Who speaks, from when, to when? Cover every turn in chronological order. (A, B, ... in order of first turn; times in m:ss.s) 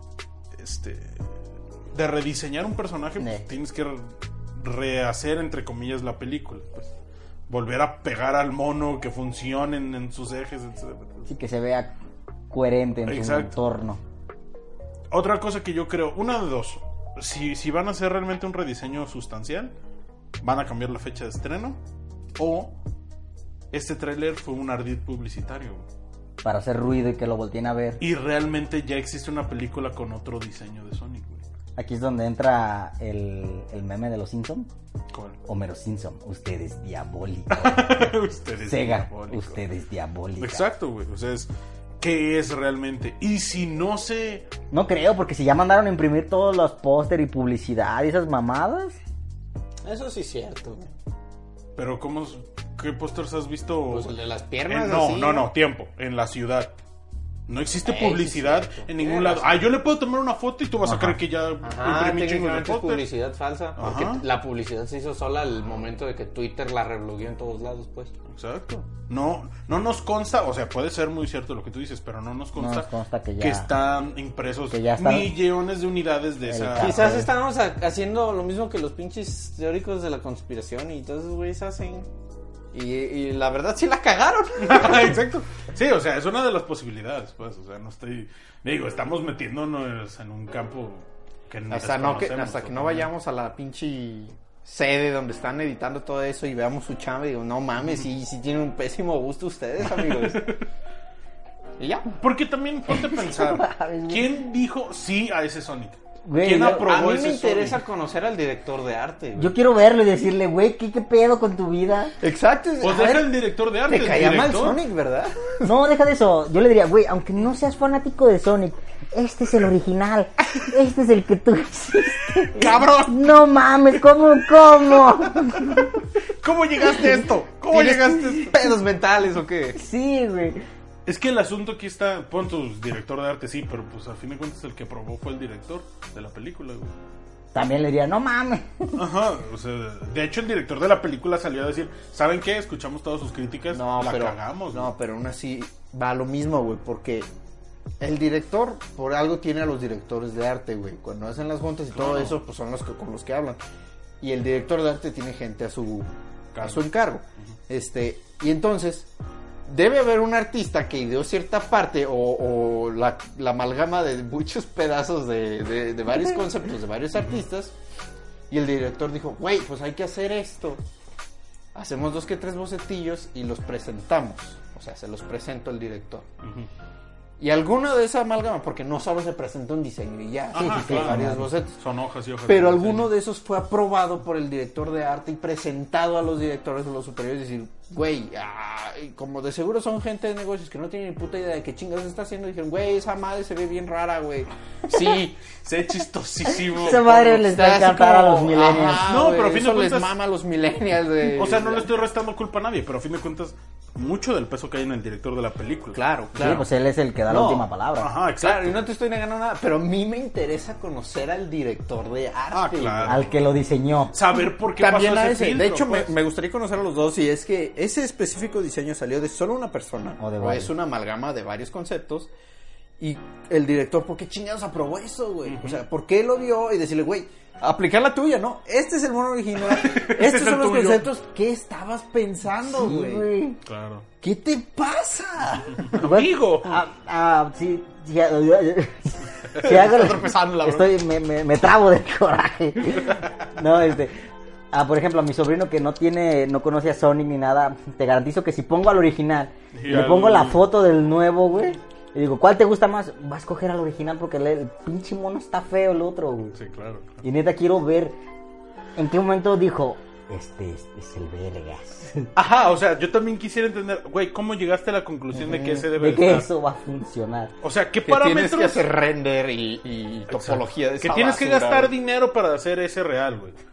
0:00.6-0:01.2 A
0:01.9-0:06.9 A
0:03.2-0:03.4 B
0:07.5-0:11.3 A
0:11.3-0:11.9 B
0:12.5-0:14.0 B
0:13.1-0:13.6 A
0:15.1-0:19.7 A
0:20.4-0:21.8 A
0:22.4-0:22.7 A
0:23.7-0:25.8 A
0:26.4-0:28.0 B
0:28.0-0:31.4 A
0:31.8-0:34.7 B
0:35.1-0:35.4 A
0:35.4-0:38.1 B
0:37.5-0:39.6 A
0:38.6-0:40.7 B
0:40.4-0:41.5 A
0:42.0-0:44.5 A
0:44.7-0:49.0 B
0:49.8-0:50.9 C
0:51.8-0:54.1 A
0:53.9-0:55.5 C
0:54.7-0:56.8 A
0:57.5-1:03.0 A
0:57.8-0:59.7 C
1:01.6-1:08.1 C
1:03.8-1:04.2 A
1:08.3-1:17.1 A
1:12.6-1:13.7 B
1:14.7-1:15.3 B
1:16.5-1:17.3 B
1:16.8-1:22.1 C
1:22.7-1:25.2 C
1:24.6-1:33.1 A
1:31.7-1:40.5 C
1:40.0-1:40.6 A
1:41.8-1:42.2 C
1:42.2-1:47.8 A
1:42.9-1:44.3 B
1:46.2-1:46.9 B
1:46.7-1:49.6 C
1:49.4-1:52.1 B
1:52.2-1:55.7 C
1:52.8-1:54.8 A
1:55.6-2:05.9 B
2:02.5-2:03.2 A
2:05.6-2:05.9 A
2:06.4-2:08.5 A
2:07.7-2:09.8 C
2:09.8-2:10.6 B
2:11.1-2:16.9 A
2:17.5-2:19.0 B
2:19.0-2:24.9 A
2:23.7-2:27.3 C
2:28.0-2:33.6 C
2:31.9-2:32.4 A
2:34.2-2:39.1 C
2:36.5-2:36.8 A
2:39.7-2:47.8 C
2:48.5-2:50.8 C
2:51.7-2:56.3 C
2:56.4-2:56.7 A
2:57.4-3:01.8 C
3:00.5-3:03.1 A
3:00.6-3:01.5 B
3:02.5-3:15.4 C
3:14.9-3:17.2 A
3:16.7-3:19.1 B
3:16.8-3:21.9 C
3:19.1-3:20.1 A
3:21.3-3:26.0 A
3:25.9-3:26.7 C
3:26.4-3:28.1 B
3:27.3-3:27.7 C
3:28.0-3:28.8 A
3:28.4-3:33.3 C
3:32.5-3:33.4 A
3:33.1-3:34.2 B
3:34.1-3:36.1 A
3:34.8-3:42.3 C
3:40.2-3:40.7 B
3:43.0-3:53.3 C
3:45.5-3:45.8 A
3:49.7-3:51.1 A
3:52.7-3:53.6 B
3:53.7-3:54.1 A
3:54.2-3:55.9 C
3:55.8-3:56.8 A
3:56.0-4:16.6 B
3:59.6-4:00.8 A
4:00.3-4:00.8 C
4:09.7-4:10.6 A
4:16.6-4:17.2 A
4:17.2-4:18.2 B
4:19.0-4:22.3 B
4:22.4-4:26.5 A
4:25.4-4:27.5 B
4:27.6-4:28.8 A
4:28.0-4:31.9 C
4:30.3-4:33.6 A